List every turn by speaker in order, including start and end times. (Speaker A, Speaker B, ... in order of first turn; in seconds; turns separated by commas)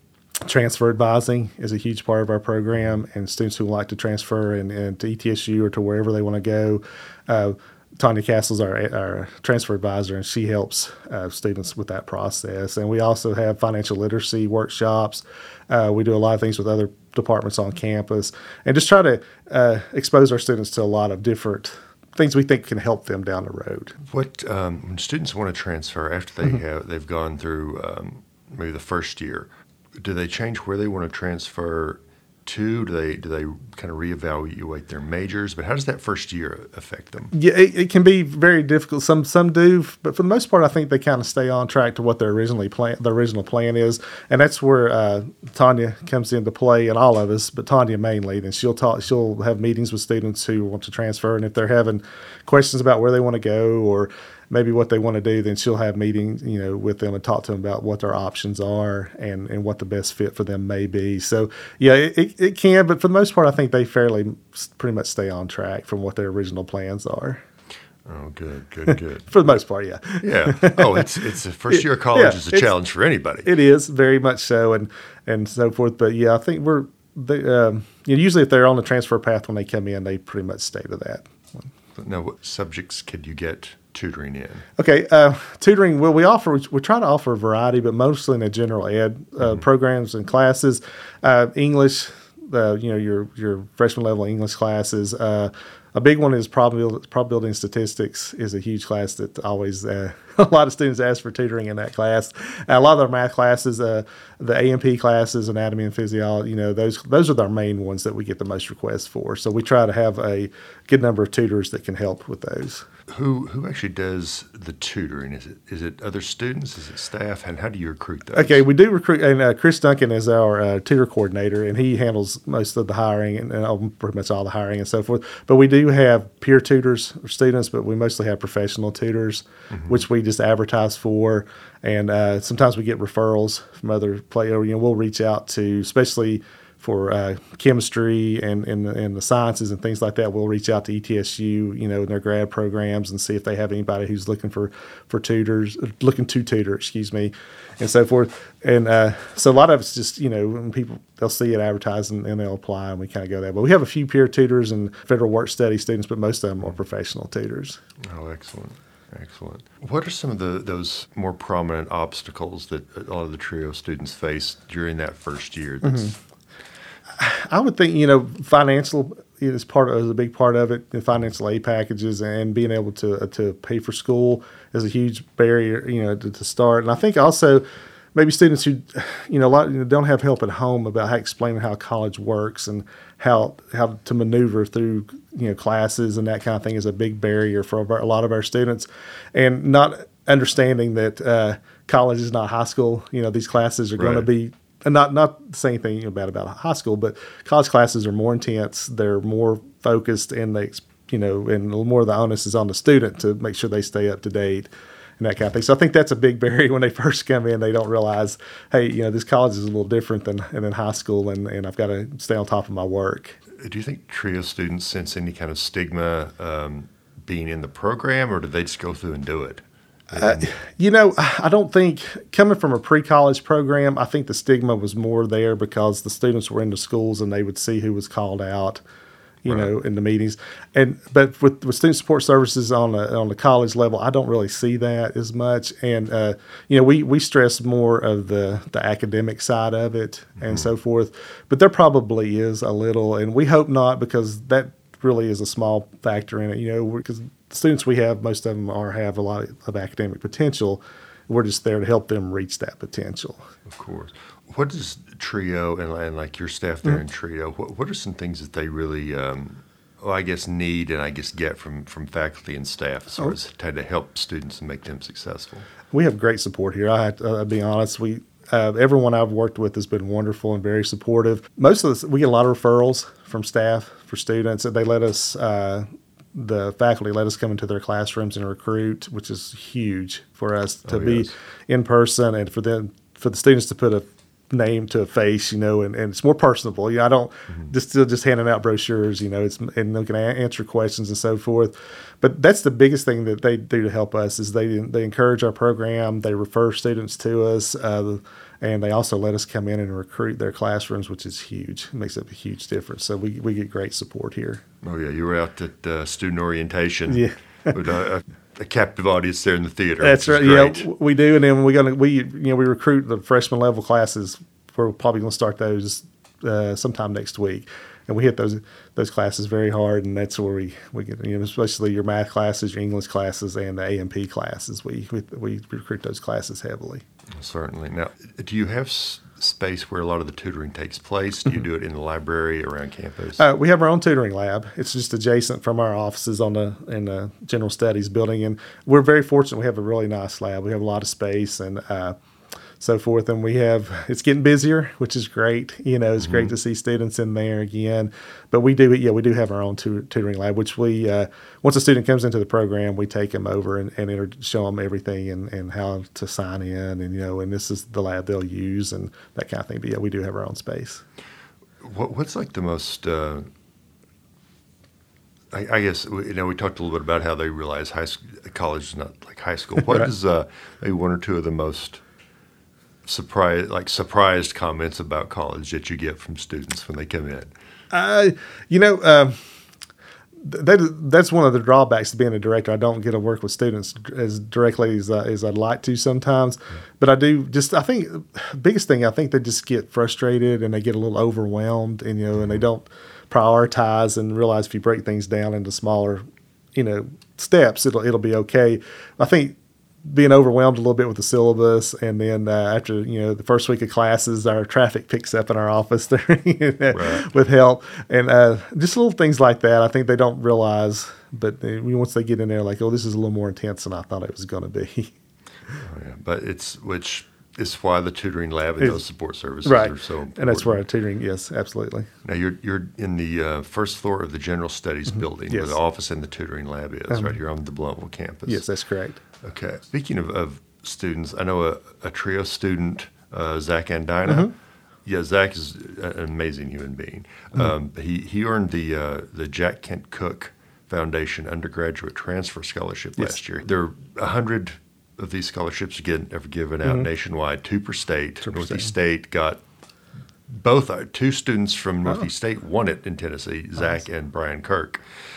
Speaker A: 0.4-24.0, Speaker B: 24.1-37.3, Speaker A: 37.3-67.4, Speaker B: 68.1-69.5, Speaker A: 68.9-71.2, Speaker B: 70.2-73.5, Speaker A: 71.7-72.7, Speaker A: 73.4-81.3, Speaker B: 82.0-84.7, Speaker A: 84.8-112.9, Speaker B: 113.1-118.6, Speaker A: 118.3-157.8, Speaker B: 129.7-130.0, Speaker B: 158.1-166.1, Speaker A: 165.8-166.2, Speaker A: 167.2-213.4, Speaker B: 194.0-194.3, Speaker B: 213.6-220.5, Speaker A: 220.1-228.8, Speaker A: 229.4-253.4, Speaker B: 229.5-229.7, Speaker B: 240.4-240.7, Speaker B: 253.7-265.7, Speaker A: 265.9-304.6, Speaker B: 280.9-281.3, Speaker B: 304.8-310.9, Speaker A: 307.1-307.7, Speaker A: 310.0-327.0, Speaker B: 327.4-333.4, Speaker A: 333.4-342.2, Speaker A: 342.8-361.0, Speaker B: 346.2-346.5, Speaker B: 361.8-363.5, Speaker B: 365.5-372.0, Speaker B: 373.1-377.5, Speaker A: 377.9-379.4, Speaker A: 380.4-396.2, Speaker A: 396.8-415.1, Speaker B: 406.9-407.3, Speaker B: 415.8-420.8, Speaker A: 419.6-422.1, Speaker B: 422.2-428.6, Speaker A: 425.5-425.8, Speaker A: 427.1-427.4, Speaker A: 428.5-429.2, Speaker B: 429.4-434.5, Speaker A: 434.3-434.5, Speaker B: 435.1-449.6, Speaker A: 448.4-448.9, Speaker B: 450.5-455.0